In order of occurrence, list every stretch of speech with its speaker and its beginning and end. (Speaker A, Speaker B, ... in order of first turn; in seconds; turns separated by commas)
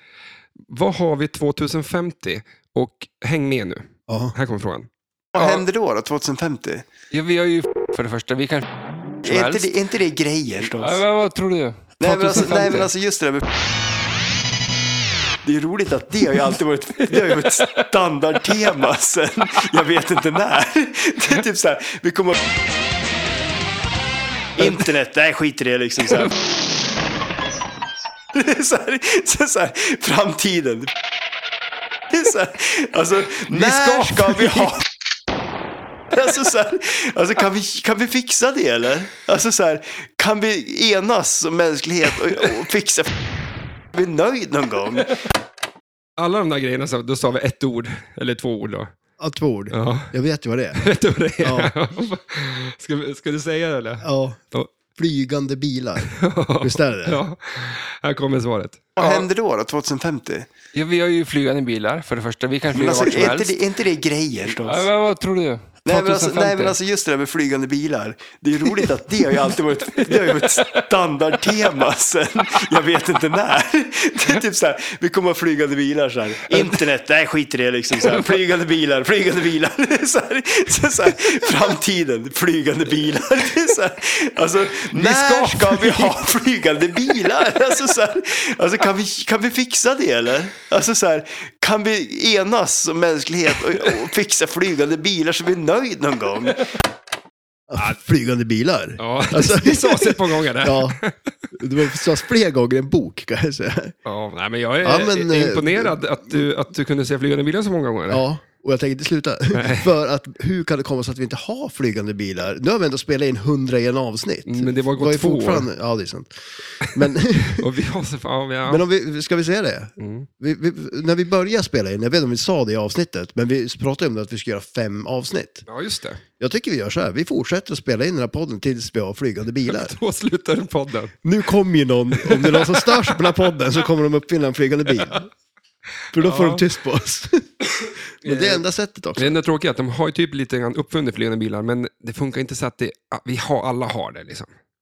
Speaker A: 0.7-4.9, Speaker B: 4.1-4.3, Speaker C: 5.3-6.8, Speaker D: 5.3-5.6, Speaker D: 7.1-8.7, Speaker D: 9.2-9.7, Speaker C: 9.2-11.0, Speaker D: 10.6-12.9, Speaker C: 12.0-13.4, Speaker C: 15.4-22.4, Speaker D: 17.1-17.8, Speaker C: 24.6-26.3, Speaker C: 28.3-30.9, Speaker C: 32.1-34.8, Speaker D: 33.5-34.8, Speaker C: 36.1-43.1, Speaker C: 43.9-45.2, Speaker A: 46.2-48.9, Speaker B: 49.2-50.9, Speaker A: 49.7-50.1, Speaker A: 50.7-54.7, Speaker B: 51.4-51.7, Speaker B: 54.0-54.4, Speaker B: 54.9-57.2, Speaker A: 56.0-58.9, Speaker C: 59.0-60.5, Speaker D: 59.0-59.2, Speaker D: 60.7-63.5, Speaker C: 62.7-64.9, Speaker D: 64.5-66.8, Speaker C: 65.8-96.7, Speaker D: 68.7-70.8, Speaker D: 71.4-71.8, Speaker D: 78.0-78.3, Speaker D: 84.9-86.3, Speaker D: 87.1-87.7, Speaker B: 97.7-101.0, Speaker A: 99.0-101.3, Speaker B: 101.5-103.9, Speaker A: 104.0-108.2, Speaker B: 104.8-106.5, Speaker B: 108.1-117.7, Speaker A: 109.5-109.9, Speaker A: 114.5-115.7, Speaker A: 116.8-118.8, Speaker B: 118.7-125.6, Speaker A: 120.0-120.3, Speaker A: 125.7-126.2, Speaker B: 126.4-129.9, Speaker A: 129.7-131.1, Speaker B: 131.2-135.2, Speaker A: 132.1-133.4, Speaker B: 136.1-139.3, Speaker A: 136.2-136.6, Speaker A: 138.2-138.6, Speaker A: 139.2-144.5